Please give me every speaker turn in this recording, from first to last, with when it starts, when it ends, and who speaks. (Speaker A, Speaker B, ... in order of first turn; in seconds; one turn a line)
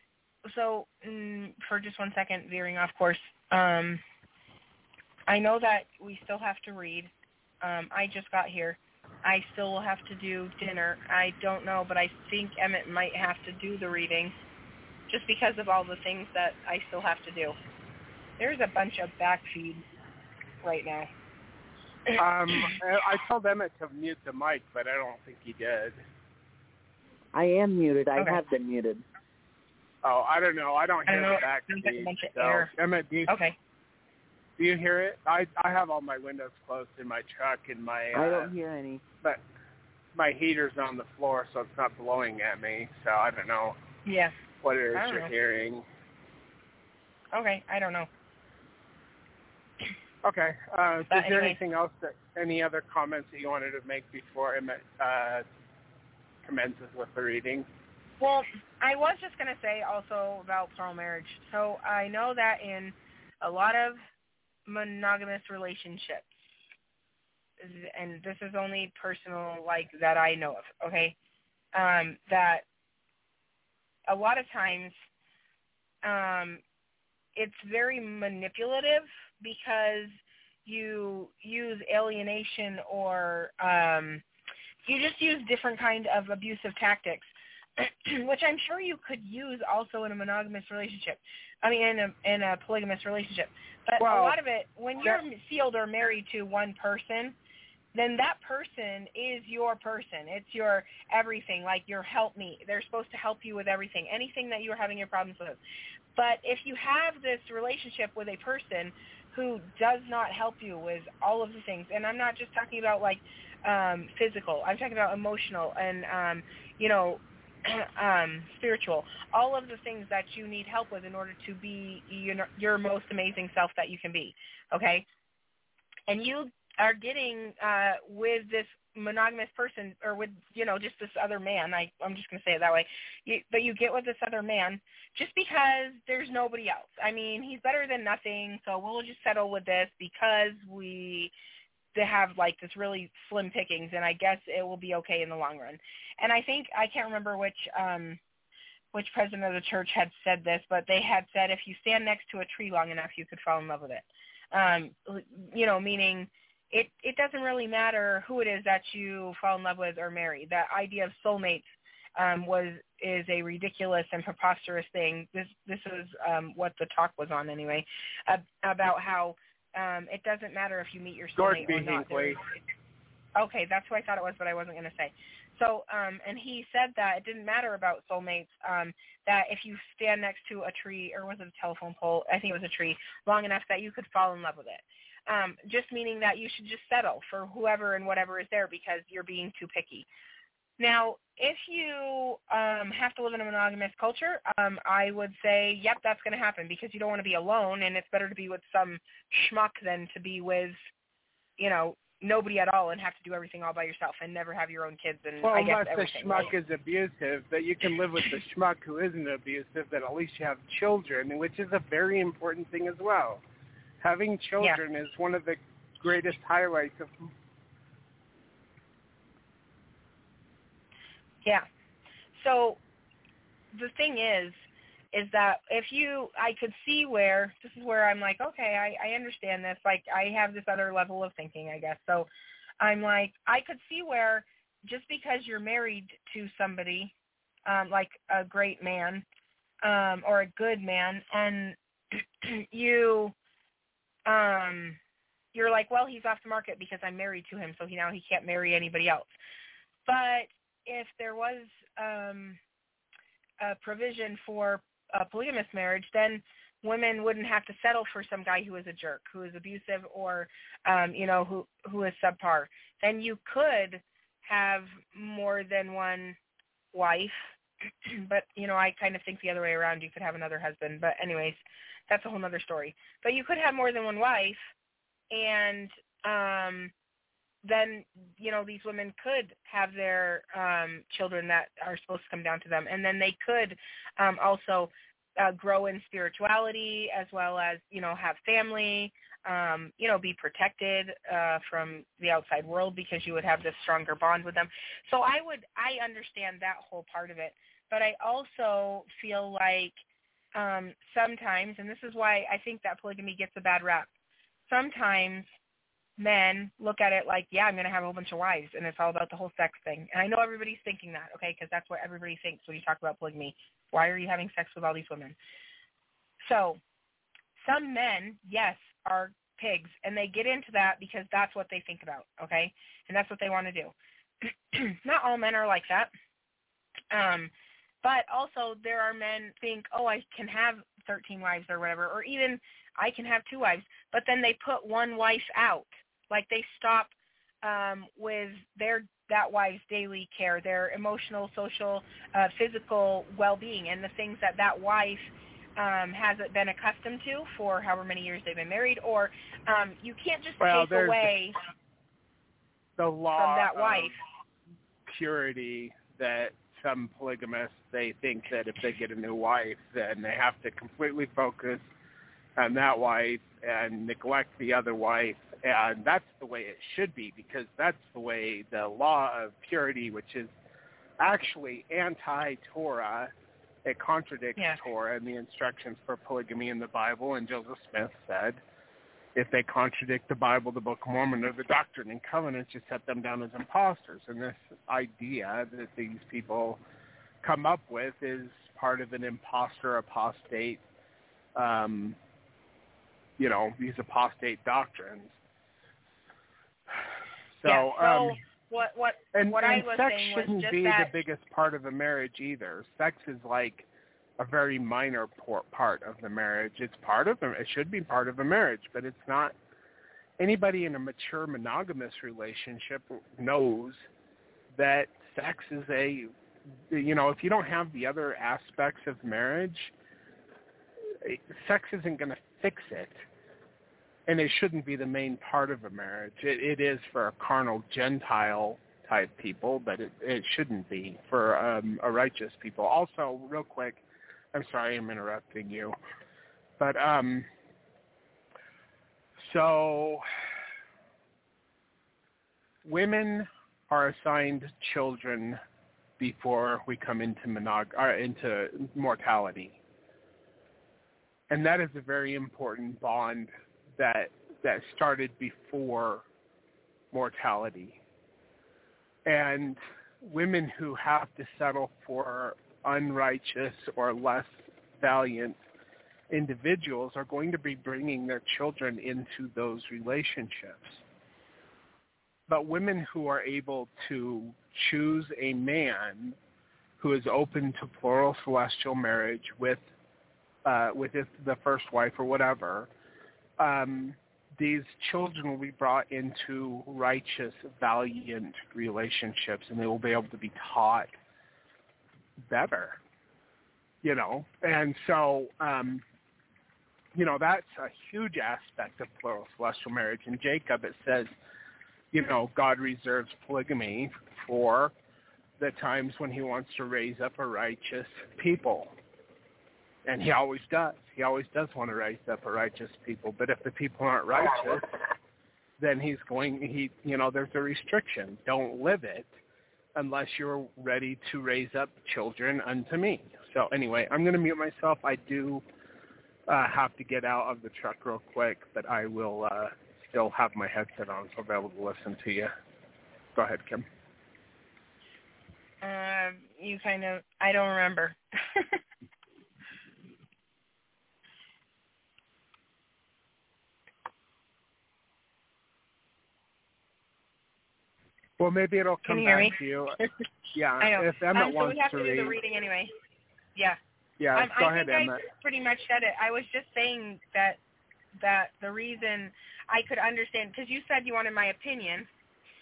Speaker A: 0.5-4.0
Speaker A: 5.3-14.3
Speaker A: 15.1-17.6
Speaker A: 18.4-19.8
Speaker A: 20.6-21.1
Speaker B: 22.2-26.0
Speaker A: 22.5-22.8
Speaker C: 27.3-29.0
Speaker B: 30.0-33.3
Speaker A: 31.1-32.7
Speaker A: 33.3-33.5
Speaker B: 34.6-38.5
Speaker C: 38.1-39.0
Speaker B: 40.1-43.8
Speaker A: 44.0-44.4
Speaker B: 44.6-45.9
Speaker A: 45.0-45.3
Speaker A: 47.3-48.1
Speaker B: 50.2-55.4
Speaker A: 51.1-51.6
Speaker B: 56.4-57.7
Speaker A: 58.2-64.0
Speaker A: 64.7-66.3
Speaker A: 67.6-71.2
Speaker A: 71.7-72.6
Speaker A: 74.1-74.9
Speaker A: 76.0-76.6
Speaker A: 77.4-84.2
Speaker A: 84.9-97.3
Speaker B: 94.0-94.4
Speaker A: 98.0-105.6
Speaker A: 106.2-125.1
Speaker A: 126.1-141.3
Speaker A: 141.9-148.2
Speaker A: 148.9-172.6
Speaker B: 171.4-172.4
Speaker A: 173.4-190.1
Speaker A: 190.8-200.8
Speaker A: 201.6-206.5
Speaker B: 205.4-213.4
Speaker B: 214.0-217.3
Speaker A: 222.4-222.8
Speaker A: 223.7-224.6
Speaker A: 225.1-232.3
Speaker A: 232.8-237.1
Speaker A: 237.7-239.2
Speaker A: 239.8-243.3
Speaker A: 244.3-245.0
Speaker A: 245.5-249.3
Speaker A: 250.1-252.6
Speaker A: 253.6-266.4
Speaker A: 266.9-267.5
Speaker A: 268.1-274.7
Speaker A: 275.3-276.9
Speaker A: 277.6-300.0
Speaker A: 300.6-304.1
Speaker A: 304.7-305.5
Speaker A: 306.2-315.4
Speaker A: 316.4-316.8
Speaker A: 317.6-323.9
Speaker A: 324.4-326.1
Speaker A: 327.1-327.5
Speaker A: 328.0-337.1
Speaker A: 337.6-351.6
Speaker B: 350.6-351.3
Speaker B: 353.0-354.2
Speaker A: 353.4-354.1
Speaker B: 355.1-361.8
Speaker B: 362.6-370.5
Speaker B: 371.2-373.3
Speaker B: 373.9-378.6
Speaker B: 379.4-386.8
Speaker B: 387.4-390.8
Speaker B: 391.6-392.2
Speaker B: 393.4-395.3
Speaker B: 397.6-398.4
Speaker A: 397.7-401.1
Speaker B: 399.3-403.9
Speaker B: 404.4-409.6
Speaker B: 410.4-414.1
Speaker B: 414.8-416.3
Speaker B: 416.9-419.9
Speaker B: 421.2-423.2
Speaker B: 424.3-434.0
Speaker B: 434.5-436.0
Speaker B: 436.8-437.5
Speaker B: 439.4-440.2
Speaker B: 442.8-445.6
Speaker B: 446.2-449.8
Speaker B: 451.5-456.2
Speaker B: 457.1-458.0
Speaker B: 459.3-465.6
Speaker B: 466.3-471.0
Speaker B: 472.5-476.4
Speaker B: 477.0-479.8
Speaker B: 480.6-482.9
Speaker B: 483.6-491.1
Speaker B: 492.5-493.0
Speaker B: 494.0-496.0
Speaker B: 497.1-501.3
Speaker B: 502.1-504.9
Speaker B: 505.6-508.9
Speaker B: 510.1-514.8
Speaker B: 515.8-519.3
Speaker B: 520.0-525.6
Speaker B: 526.5-532.5
Speaker B: 533.4-533.9
Speaker A: 535.8-538.8
Speaker B: 548.4-550.0
Speaker A: 549.0-549.6
Speaker B: 550.5-552.4
Speaker A: 550.8-552.9
Speaker B: 554.2-555.2
Speaker A: 554.4-557.6
Speaker A: 558.2-562.1